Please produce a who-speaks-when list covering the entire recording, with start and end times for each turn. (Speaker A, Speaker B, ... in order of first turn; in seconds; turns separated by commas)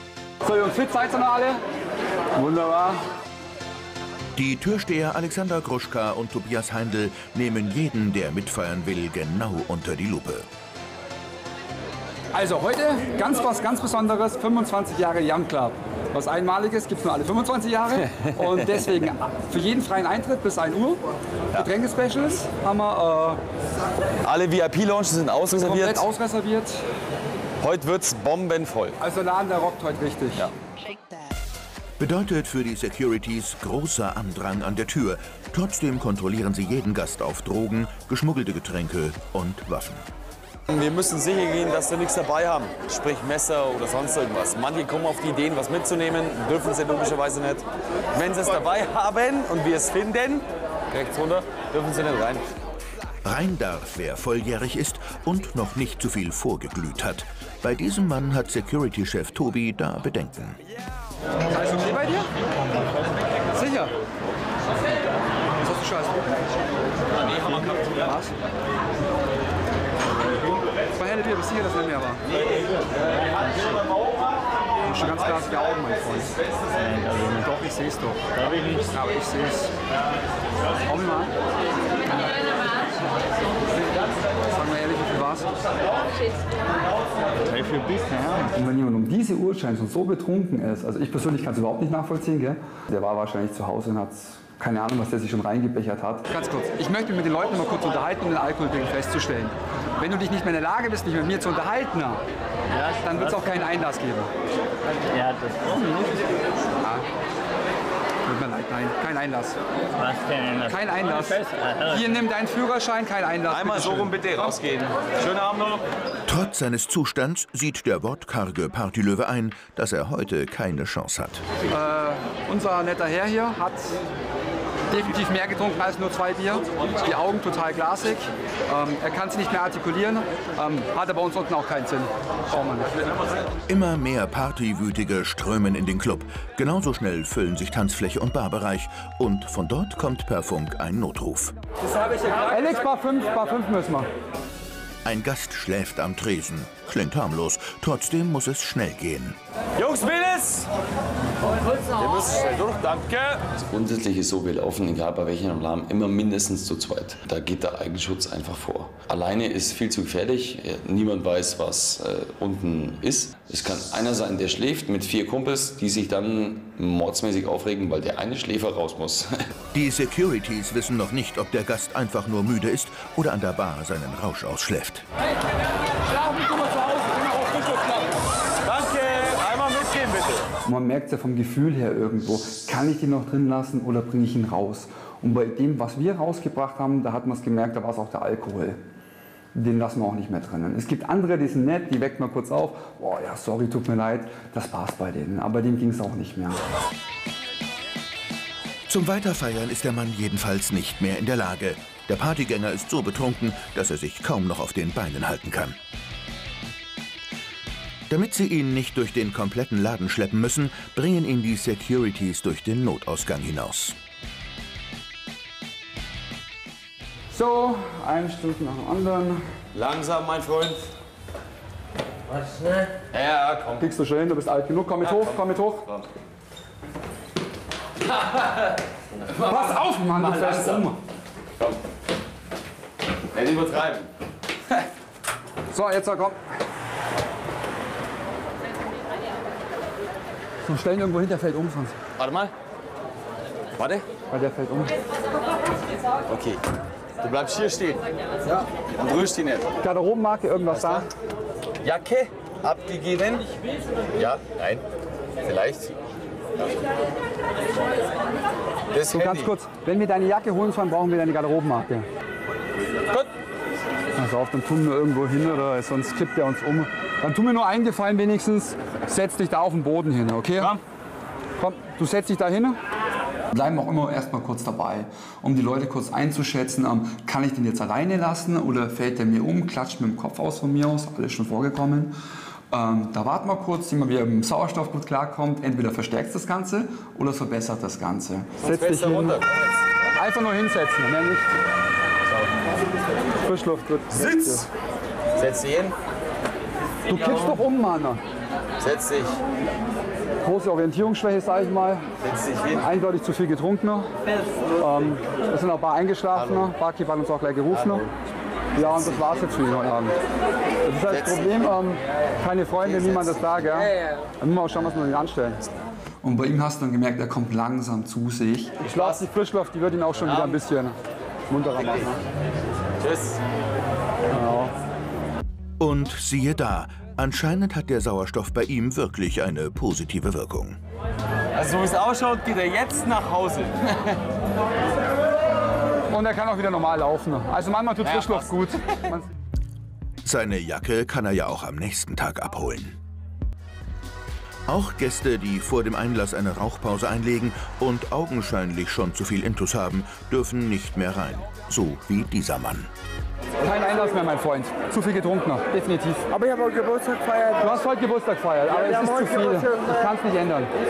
Speaker A: 0.4-1.6, Speaker A: 2.3-3.0, Speaker B: 4.4-10.5, Speaker A: 12.3-23.4, Speaker C: 24.2-26.0, Speaker A: 25.5-26.8, Speaker C: 27.6-29.0, Speaker A: 29.0-30.5, Speaker B: 32.0-40.0, Speaker C: 40.7-52.5, Speaker B: 53.2-60.6, Speaker A: 61.5-62.3, Speaker A: 63.5-63.9, Speaker A: 65.6-66.4, Speaker A: 67.3-68.3, Speaker A: 70.9-72.2, Speaker A: 74.8-76.4, Speaker D: 76.8-77.4, Speaker A: 77.2-78.2, Speaker D: 78.4-78.8, Speaker A: 78.8-79.7, Speaker A: 80.8-81.3, Speaker A: 84.4-85.5, Speaker D: 87.5-88.4, Speaker A: 88.4-102.2, Speaker D: 102.8-103.1, Speaker A: 102.8-104.3, Speaker D: 105.0-106.3, Speaker A: 106.8-107.0, Speaker A: 108.2-109.6, Speaker D: 110.0-110.8, Speaker A: 110.7-114.6, Speaker D: 111.4-112.0, Speaker C: 113.5-115.8, Speaker B: 116.3-121.4, Speaker A: 121.7-123.9, Speaker A: 124.9-133.1, Speaker B: 133.7-141.6, Speaker A: 142.3-144.1, Speaker B: 145.1-149.4, Speaker C: 149.8-150.7, Speaker C: 151.9-153.5, Speaker E: 153.5-169.3, Speaker B: 169.7-175.1, Speaker A: 176.1-178.1, Speaker C: 178.6-180.5, Speaker A: 180.7-188.8, Speaker A: 189.5-196.6, Speaker B: 198.9-205.8, Speaker B: 208.1-214.0, Speaker A: 217.3-219.4, Speaker C: 219.7-220.9, Speaker C: 223.1-223.9, Speaker A: 223.8-225.8, Speaker C: 225.0-225.4, Speaker C: 229.3-230.8, Speaker A: 229.3-231.0, Speaker C: 233.3-234.1, Speaker A: 235.7-236.4, Speaker A: 240.6-242.0, Speaker C: 242.2-242.5, Speaker C: 243.8-244.1, Speaker A: 244.3-244.9, Speaker C: 246.3-246.6, Speaker C: 247.2-249.7, Speaker A: 249.8-251.1, Speaker C: 250.7-251.1, Speaker C: 251.8-253.5, Speaker C: 254.2-254.8, Speaker C: 255.4-255.9, Speaker C: 258.9-259.5, Speaker A: 259.1-262.1, Speaker A: 264.1-270.8, Speaker A: 271.6-272.8, Speaker A: 273.5-282.1, Speaker A: 282.7-289.4, Speaker C: 288.6-289.8, Speaker A: 290.1-291.5, Speaker A: 293.4-294.7, Speaker C: 294.1-294.6, Speaker C: 295.4-296.0, Speaker A: 297.1-298.2, Speaker C: 298.8-299.4, Speaker A: 300.4-302.1, Speaker C: 302.2-302.8, Speaker A: 302.8-304.1, Speaker A: 304.8-308.1, Speaker C: 306.4-306.7, Speaker C: 307.7-308.0, Speaker A: 308.8-310.1, Speaker C: 308.9-309.2, Speaker A: 310.8-315.6, Speaker C: 311.1-311.4, Speaker C: 312.8-313.8, Speaker A: 316.2-321.0, Speaker C: 318.8-319.2, Speaker C: 320.2-320.6, Speaker A: 321.5-322.2, Speaker C: 323.0-323.4, Speaker A: 324.3-324.7, Speaker B: 325.8-330.8, Speaker C: 331.5-334.1, Speaker A: 336.1-339.3, Speaker C: 338.0-338.6, Speaker B: 340.2-343.0, Speaker B: 344.7-352.9, Speaker A: 353.6-356.3, Speaker F: 356.3-357.8, Speaker A: 357.6-360.7, Speaker F: 358.7-360.1